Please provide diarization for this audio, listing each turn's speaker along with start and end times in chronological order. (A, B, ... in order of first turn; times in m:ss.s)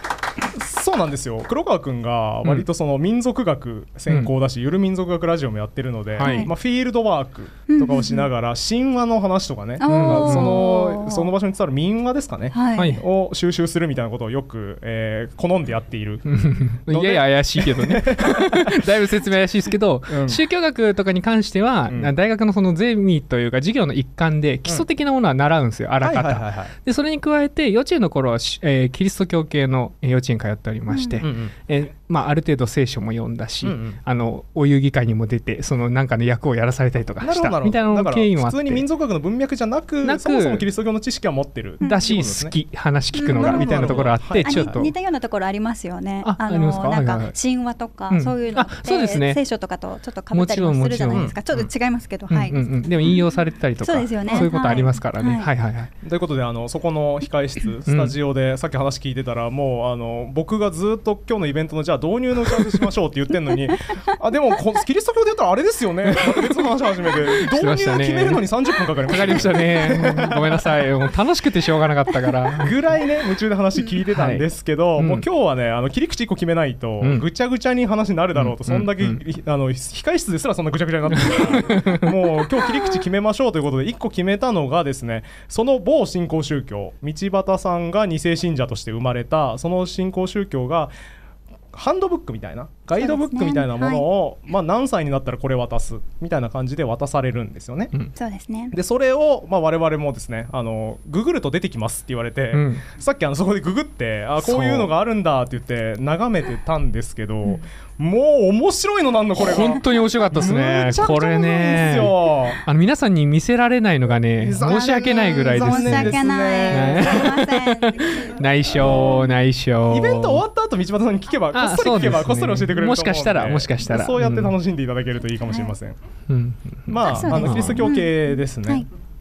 0:00.6-0:16.2 A
0:04.1-0:04.3 B
0:06.2-0:06.5 B
0:06.2-0:06.5 C
0:07.7-0:08.3 C
0:09.8-0:11.3 C
0:09.9-0:10.6 B
0:12.5-0:13.0 C
0:12.7-0:13.0 B
0:16.2-0:38.9 B
0:16.9-0:18.7 A
0:20.1-0:20.4 A
0:21.9-0:22.2 A
0:26.0-0:26.8 A
0:30.9-0:31.2 C
0:31.2-0:31.6 A
0:33.6-0:34.0 A
0:37.2-0:42.6 A
0:40.0-0:40.7 B
0:41.8-0:42.1 C
0:41.8-0:44.9 B
0:43.1-0:53.2 C
0:43.3-0:44.9 A
0:46.2-0:47.4 B
0:48.1-0:49.4 B
0:50.3-0:51.4 B
0:51.1-0:51.7 A
0:52.3-0:55.9 B
0:53.8-0:55.5 C
0:56.0-1:10.7 A
0:57.9-0:58.2 B
1:07.3-1:08.5 B
1:09.0-1:12.9 B
1:12.6-1:30.9 A
1:14.1-1:15.3 B
1:17.0-1:17.3 B
1:18.3-1:19.2 B
1:21.2-1:22.1 B
1:31.7-1:37.9 A
1:33.0-1:34.1 C
1:38.2-1:38.8 C
1:38.7-1:52.6 A
1:42.5-1:42.9 B
1:44.4-1:44.9 B
1:49.4-2:00.4 B
1:54.4-1:57.3 A
1:54.6-1:58.4 C
1:58.8-1:59.3 A
1:59.9-2:06.0 A
2:01.5-2:04.6 B
2:05.5-2:05.8 C
2:06.3-2:07.9 B
2:06.9-2:08.9 A
2:07.0-2:08.9 C